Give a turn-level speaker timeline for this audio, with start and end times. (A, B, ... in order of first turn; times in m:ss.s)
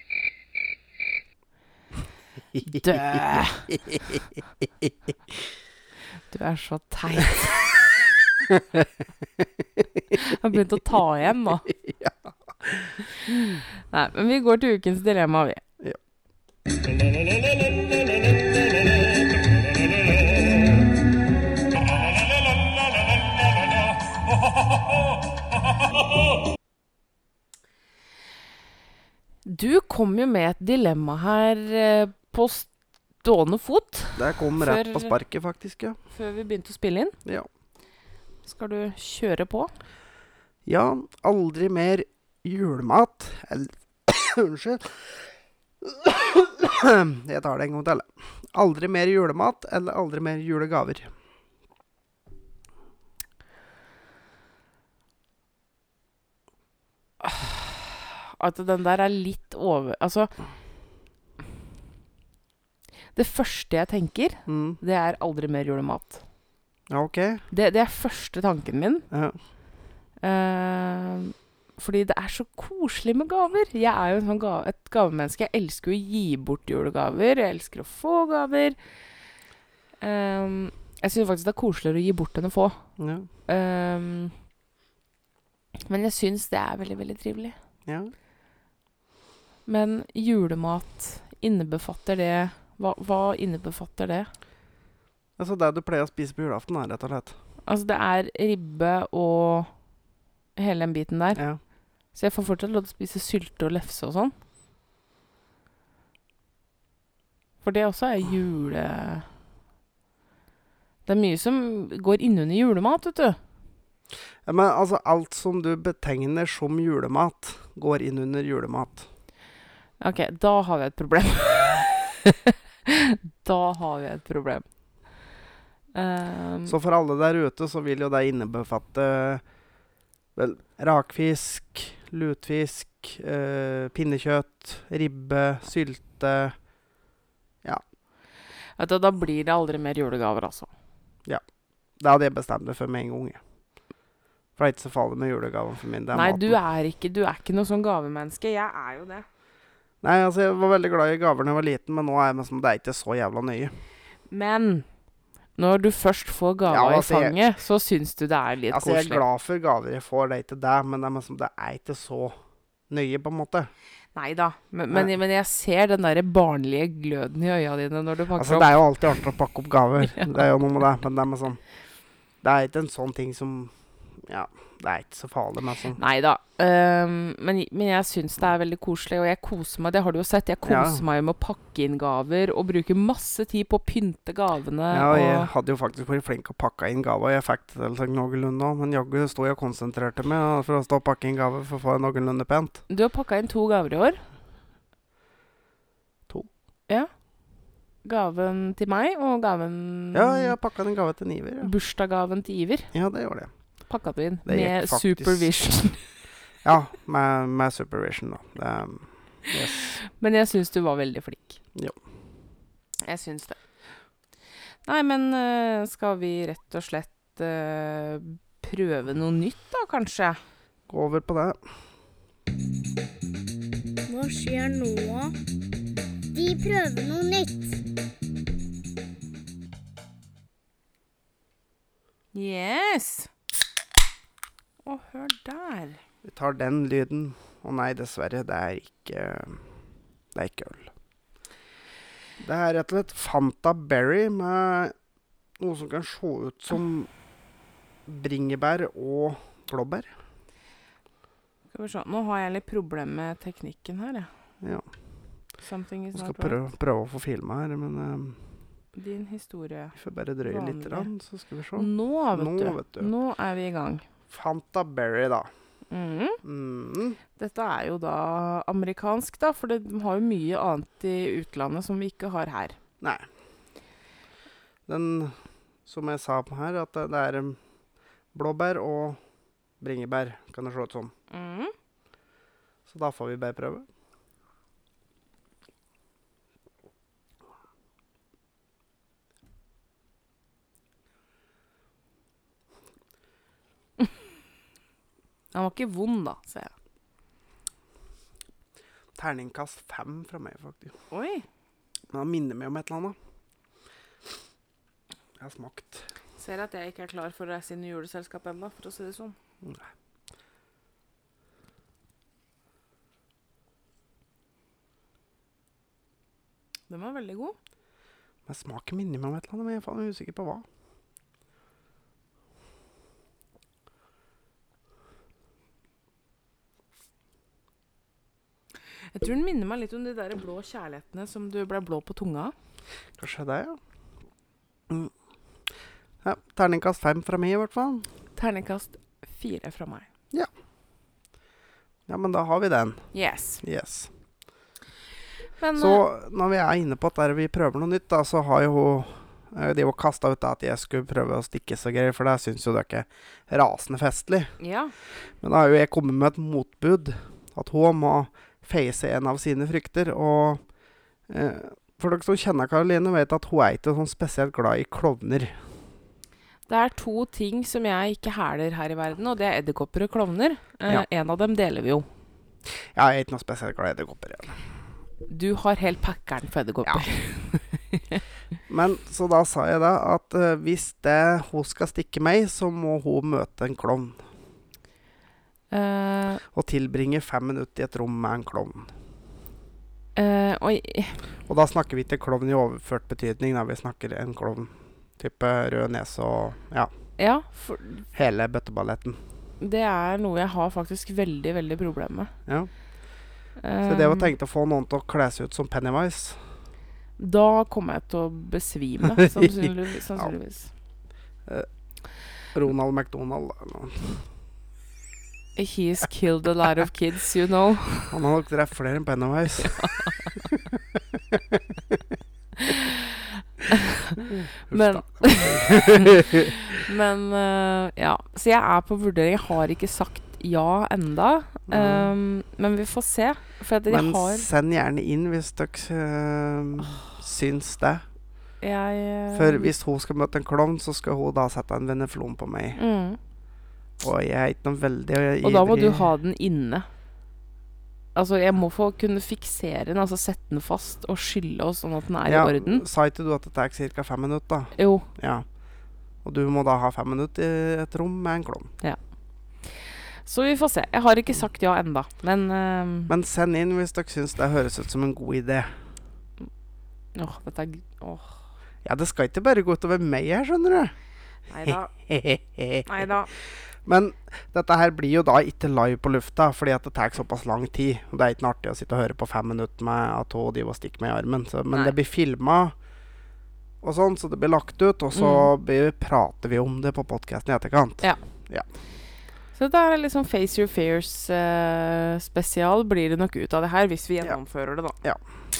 0:02.6-0:04.0 A
0:02.6-0:03.7 B
0:06.3-0:07.8 B
0:08.5-0:08.8 A
0:10.1-0:11.6 B
0:11.7-0:13.6 A
0:13.8-0:15.6 B
0:29.4-0:32.7 B
0:33.2-0:35.2 B
0:34.2-0:36.0 A
0:36.1-0:37.2 B
0:38.4-0:39.7 B
0:40.6-0:45.1 A
0:45.8-0:51.1 A
0:57.2-1:00.3 B
1:03.1-1:06.2 B
1:04.4-1:04.8 A
1:06.9-1:07.4 A
1:07.5-1:09.1 B
1:09.1-1:09.4 A
1:10.2-1:18.8 B
1:20.0-1:22.8 B
1:23.0-1:23.3 A
1:23.4-1:24.3 B
1:25.8-1:27.5 B
1:27.8-1:28.1 A
1:29.6-1:34.3 B
1:35.4-1:37.3 A
1:37.6-1:39.7 B
1:40.6-1:41.4 B
1:42.1-1:44.3 B
1:47.6-1:49.3 B
1:51.0-1:53.4 B
1:54.4-1:59.1 A
2:00.0-2:04.6 B
2:05.9-2:06.7 B
2:06.6-2:09.4 A
2:10.4-2:16.6 A
2:18.8-2:20.7 B
2:22.0-2:23.4 A
2:24.6-2:26.6 A
2:26.1-2:29.3 B
2:30.0-2:33.8 A
2:34.3-2:34.9 B
2:35.6-2:39.2 B
2:36.7-2:37.4 A
2:38.7-2:42.4 A
2:42.9-2:43.7 A
2:44.1-2:48.8 B
2:48.4-2:51.6 A
2:50.1-2:50.4 B
2:52.4-2:56.0 A
2:56.0-3:05.5 B
3:00.6-3:01.0 A
3:04.9-3:12.8 A
3:12.9-3:14.2 B
3:18.0-3:20.5 B
3:20.1-3:21.7 A
3:21.6-3:22.9 B
3:22.9-3:23.5 A
3:23.9-3:26.0 B
3:24.4-3:25.5 A
3:26.6-3:30.0 A
3:30.0-3:31.6 B
3:33.0-3:33.6 B
3:34.8-3:40.4 B
3:40.9-3:41.6 A
3:44.1-3:45.3 C
3:46.3-3:47.8 C
3:52.3-3:53.3 B
3:54.8-3:56.0 B
3:56.2-3:59.6 A
4:00.3-4:00.9 A
4:02.4-4:04.9 A
4:05.6-4:07.1 A
4:08.1-4:10.1 A
4:11.7-4:14.3 B
4:14.6-4:14.9 A
4:15.6-4:16.6 B
4:16.1-4:18.4 A
4:18.9-4:19.9 B
4:20.0-4:23.1 A
4:20.5-4:21.1 B
4:21.7-4:24.0 B
4:24.3-4:25.5 A
4:25.9-4:26.4 B
4:26.4-4:27.2 A
4:27.4-4:32.8 B
4:34.9-4:37.6 A
4:38.3-4:39.2 A
4:39.8-4:41.1 A
4:41.3-4:41.7 B
4:42.9-4:43.8 A
4:55.5-4:56.7 B
4:59.2-5:00.9 A
5:01.1-5:01.4 B
5:02.1-5:03.2 A
5:05.4-5:06.1 A
5:06.4-5:09.4 B
5:16.9-5:17.6 B
5:18.4-5:20.6 A
5:29.1-5:32.5 B
5:33.2-5:33.8 A
5:36.2-5:38.0 A
5:38.4-5:40.1 B
5:42.1-5:43.1 A
5:43.1-5:43.6 B
5:43.6-5:44.1 A
5:45.6-5:46.0 B
5:45.7-5:54.5 A
5:54.6-5:54.9 B
5:55.4-6:00.6 A
6:01.3-6:05.6 A
6:06.7-6:12.1 B
6:12.9-6:14.6 A
6:15.3-6:18.2 B
6:18.7-6:24.2 A
6:25.7-6:26.4 B
6:26.5-6:28.9 A
6:30.1-6:31.2 B
6:31.5-6:36.9 A
6:37.2-6:38.0 B
6:38.1-6:39.2 A
6:39.6-6:42.3 B
6:43.6-6:44.3 B
6:43.8-6:46.4 A
6:47.2-6:50.7 B
6:49.2-6:50.3 A
6:52.5-6:54.2 A
6:55.6-6:58.2 B
6:58.1-7:02.0 A
6:59.7-7:00.3 B
7:02.6-7:14.5 B
7:04.2-7:06.6 A
7:11.7-7:12.1 A
7:13.9-7:18.0 A
7:18.6-7:19.7 B
7:19.3-7:22.8 A
7:22.7-7:23.2 B
7:24.0-7:26.1 A
7:25.4-7:26.9 B
7:28.1-7:32.8 B
7:32.2-7:35.4 A
7:34.8-7:35.1 B
7:36.2-7:38.7 A
7:39.6-7:43.1 B
7:43.1-7:45.7 A
7:47.1-7:48.4 B
7:48.8-7:50.9 A
7:51.5-7:51.9 B
7:51.7-7:52.9 A
7:52.8-7:53.3 B
7:53.7-8:02.7 A
8:03.8-8:08.6 A
8:05.2-8:05.5 B
8:09.5-8:15.0 B